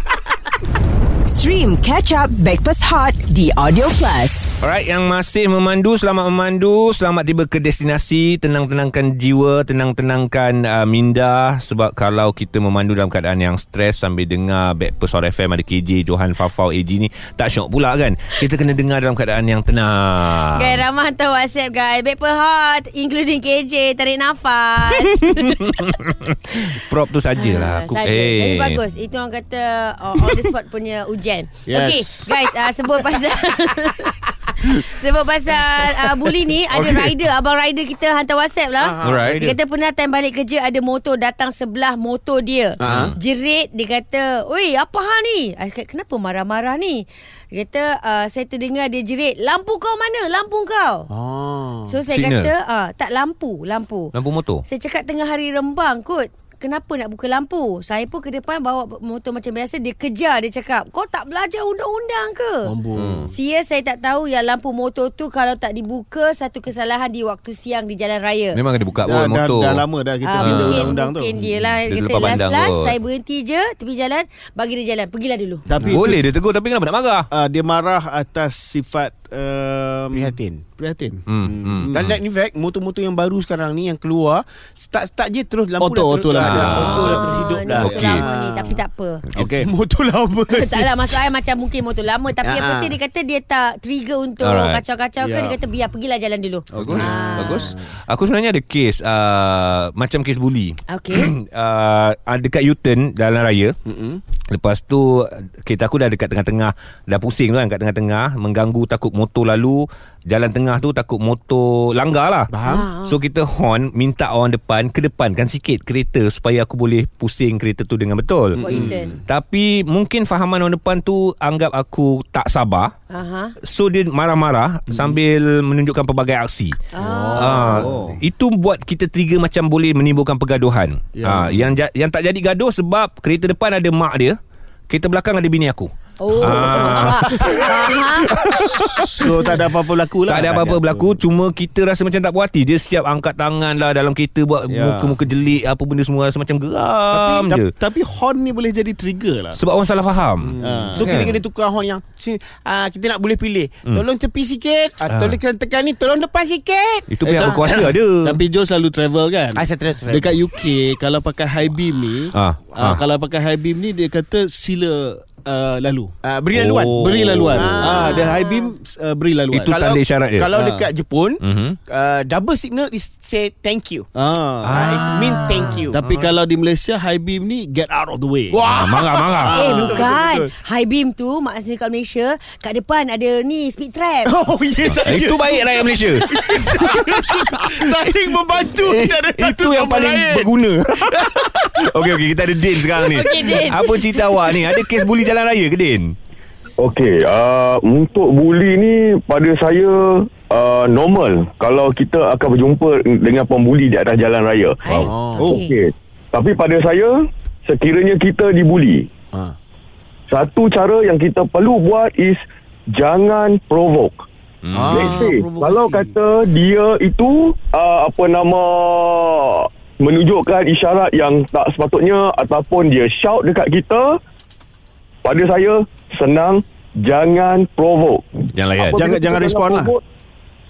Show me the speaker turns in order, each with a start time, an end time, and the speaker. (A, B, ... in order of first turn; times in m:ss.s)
0:01.2-0:04.5 A
0:04.6-0:20.8 B
0:20.4-0:25.8 C
0:25.1-0:28.8 B
0:27.3-0:51.1 C
0:31.7-0:32.4 D
0:36.7-0:37.1 B
0:38.8-0:39.6 E
0:39.0-0:39.4 B
0:42.8-0:43.1 E
0:42.9-0:43.2 B
0:51.1-0:52.0 E
0:51.9-0:54.1 C
0:52.1-0:52.5 B
0:54.1-0:54.6 B
0:54.7-1:02.7 C
1:02.6-1:03.3 E
1:03.0-1:03.3 B
1:03.3-1:08.6 C
1:08.5-1:09.8 B
1:09.0-1:11.4 D
1:10.2-1:15.7 C
1:10.4-1:10.9 B
1:11.8-1:12.9 B
1:15.7-1:16.2 D
1:15.8-1:16.1 E
1:15.9-1:17.2 B
1:17.3-1:21.3 D
1:20.1-1:20.6 E
1:21.3-1:22.0 B
1:21.4-1:28.8 E
1:21.8-1:22.2 D
1:25.8-1:27.9 D
1:26.4-1:27.0 B
1:26.7-1:29.2 C
1:27.8-1:28.2 B
1:29.4-1:29.7 D
1:29.4-1:31.0 E
1:30.5-1:37.7 C
1:32.4-1:33.0 E
1:34.4-1:34.8 B
1:35.2-1:35.6 D
1:36.7-1:37.5 D
1:36.8-1:43.7 B
1:37.3-1:37.9 E
1:40.9-1:41.3 C
1:43.9-1:44.2 E
1:44.5-1:58.6 B
1:52.5-1:52.9 E
1:52.7-1:53.2 C
1:58.6-1:59.1 C
1:58.7-1:59.1 E
1:59.3-2:02.9 B
2:03.1-2:03.5 C
2:03.6-2:06.8 B
2:06.9-2:07.9 C
2:07.1-2:08.2 D
2:07.3-2:14.4 B
2:11.2-2:11.7 D
2:14.9-2:19.5 B
2:16.2-2:18.5 C
2:19.0-2:20.8 D
2:20.3-2:27.7 B
2:24.7-2:25.2 D
2:27.1-2:27.5 E
2:27.5-2:29.6 D
2:29.5-2:31.3 B
2:30.4-2:37.9 E
2:30.6-2:31.1 D
2:35.1-2:35.4 B
2:37.1-2:38.4 B
2:37.3-2:49.8 D
2:39.5-2:40.3 E
2:42.3-2:43.0 B
2:46.2-2:48.4 E
2:46.5-2:48.0 B
2:47.8-2:48.7 C
2:49.5-2:50.5 B
2:49.7-2:54.1 E
2:50.5-2:50.9 D
2:51.4-2:51.8 B
2:54.1-2:54.9 D
2:54.6-2:56.3 B
2:54.7-2:56.0 E
2:55.2-2:55.8 C
2:55.9-2:58.6 D
2:58.5-3:00.5 E
2:58.6-2:59.6 B
2:59.4-3:00.0 D
2:59.5-3:04.3 C
3:04.2-3:11.7 E
3:04.8-3:07.1 B
3:08.7-3:16.2 B
3:13.0-3:14.5 C
3:16.8-3:29.1 F
3:24.8-3:25.8 C
3:25.1-3:25.5 E
3:30.3-3:32.4 F
3:32.9-3:34.2 F
3:34.6-3:35.2 B
3:34.7-3:36.1 E
3:34.8-3:44.2 F
3:45.2-3:50.0 F
3:48.5-3:49.0 B
3:49.0-3:49.9 D